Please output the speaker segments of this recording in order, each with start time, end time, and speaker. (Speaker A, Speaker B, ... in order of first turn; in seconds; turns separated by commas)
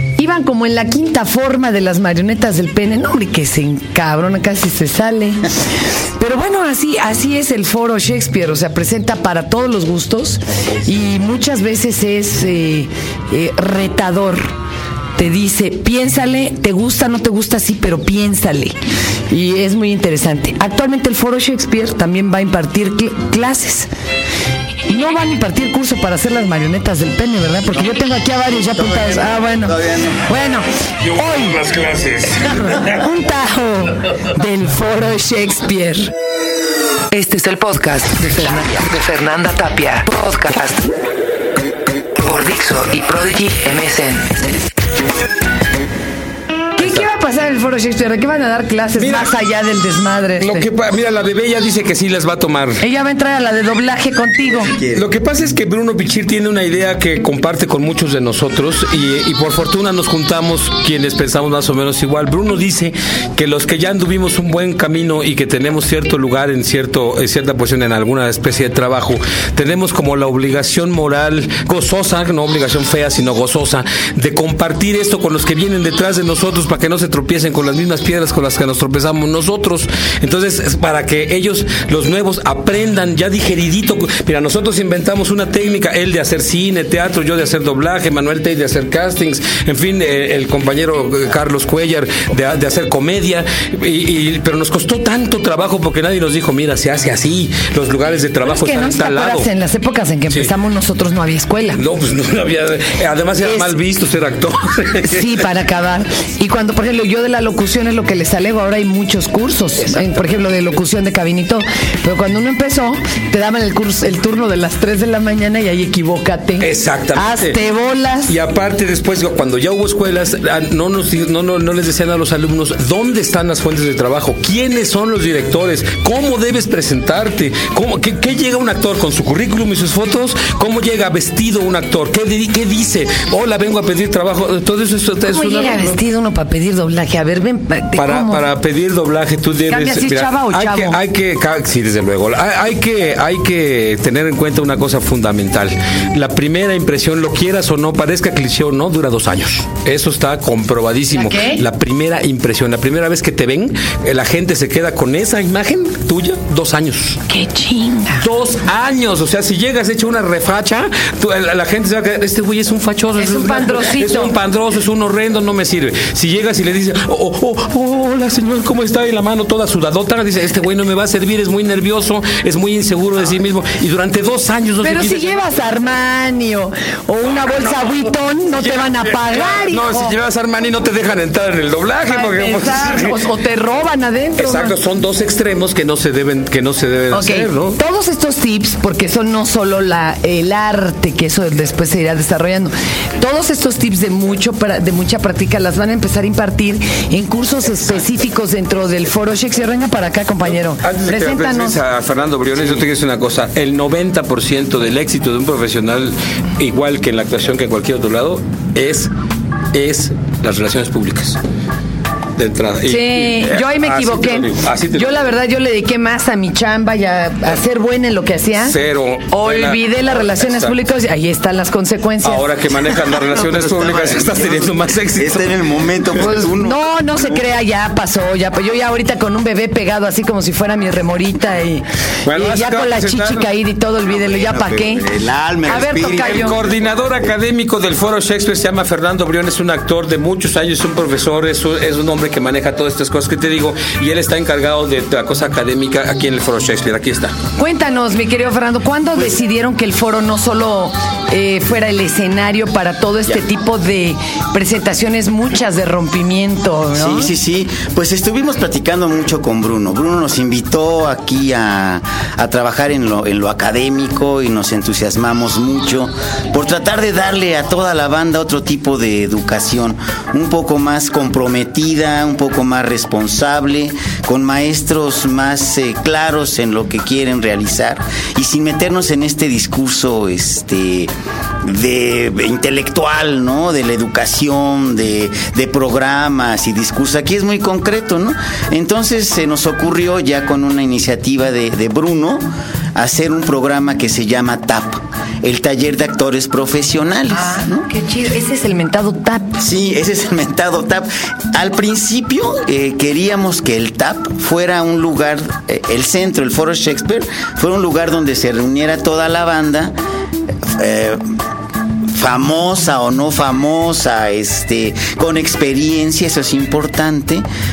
Speaker A: 0.1-5.5, Speaker A: 6.2-14.5, Speaker A: 15.2-18.7, Speaker A: 19.3-23.9, Speaker A: 24.9-31.6, Speaker B: 28.5-30.2, Speaker C: 31.1-33.0, Speaker A: 32.7-36.1, Speaker A: 37.1-40.8, Speaker A: 42.2-44.4, Speaker A: 46.8-50.7, Speaker C: 49.0-49.3, Speaker C: 50.4-52.8, Speaker A: 52.8-54.7, Speaker B: 54.5-55.1, Speaker C: 54.9-99.5, Speaker A: 98.4-101.8, Speaker C: 101.7-105.4, Speaker A: 103.4-103.7, Speaker A: 105.0-118.3, Speaker C: 110.0-110.3, Speaker C: 116.6-117.6, Speaker C: 118.3-135.9, Speaker A: 135.2-138.4, Speaker C: 137.9-157.2, Speaker A: 139.7-141.0, Speaker A: 151.1-151.6, Speaker A: 157.3-158.2, Speaker C: 158.2-175.3, Speaker A: 163.2-164.3, Speaker A: 174.8-180.1, Speaker C: 178.5-183.2, Speaker A: 182.0-184.8, Speaker C: 184.4-187.8, Speaker A: 187.1-201.8, Speaker C: 200.4-209.1, Speaker C: 209.7-211.4, Speaker C: 212.3-215.3, Speaker A: 212.8-218.8, Speaker C: 218.6-220.8, Speaker A: 219.3-222.5, Speaker C: 222.2-225.6, Speaker B: 223.6-224.6, Speaker B: 225.2-227.4, Speaker A: 226.2-235.0, Speaker C: 232.2-233.5, Speaker B: 234.1-236.7, Speaker A: 235.7-236.6, Speaker C: 236.1-247.3, Speaker A: 247.6-257.3, Speaker B: 256.9-281.1, Speaker B: 281.6-292.4, Speaker B: 292.9-297.9, Speaker A: 297.3-299.6, Speaker B: 299.6-309.9, Speaker B: 310.7-311.2, Speaker B: 312.1-317.4